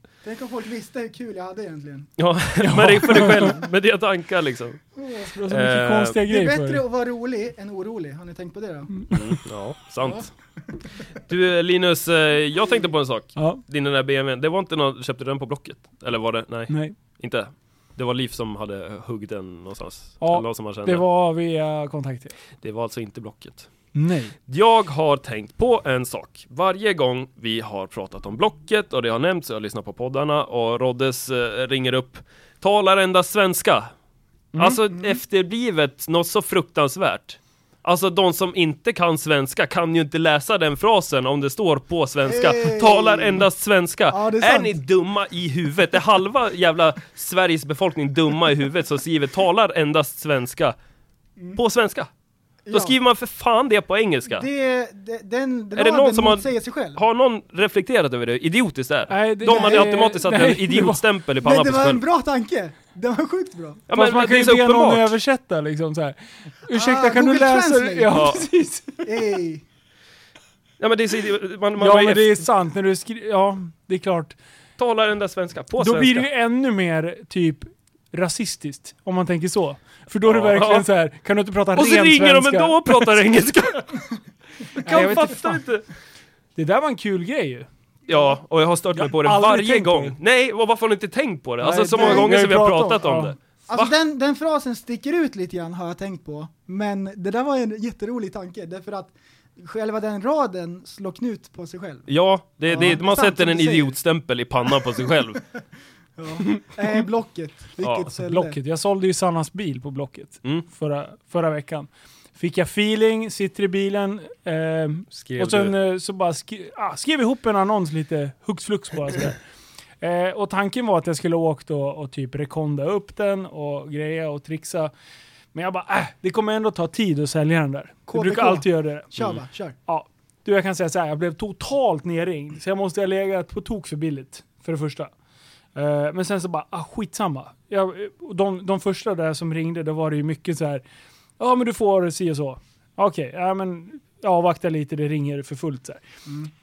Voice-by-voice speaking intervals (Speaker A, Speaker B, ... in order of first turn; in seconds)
Speaker A: 0.2-2.1, 5.0-5.3, 6.3-9.0, 34.9-35.2, 42.3-43.5, 44.1-44.8, 52.7-53.0, 54.3-57.0, 59.5-59.9, 61.4-63.9, 66.7-68.3, 69.0-69.6, 84.9-85.3, 92.0-92.3, 93.7-102.1, 102.7-103.9, 106.2-108.5, 128.1-129.8
Speaker B: 2.2-4.8, 5.5-6.2, 9.1-10.3, 11.2-21.0, 22.6-23.7, 24.5-33.9, 34.6-50.7, 51.5-52.1, 52.7-54.5, 55.7-62.0, 63.9-65.1, 68.1-68.4, 70.8-72.4, 74.8-76.3, 80.3-80.9, 81.7-84.0, 84.8-85.8, 88.1-93.9, 102.1-105.5, 107.8-108.0, 115.1-115.7
Speaker C: 2.6-3.5, 5.2-6.8, 16.7-17.0, 20.2-22.3, 23.9-24.3, 34.5-34.8, 59.1-61.0, 63.9-69.1, 71.8-74.4, 75.8-83.5, 84.9-85.6, 86.5-87.7, 89.0-90.2, 91.6-93.4, 108.2-119.4, 120.0-124.9, 125.5-129.2, 129.9-135.1, 135.7-140.8, 141.4-146.0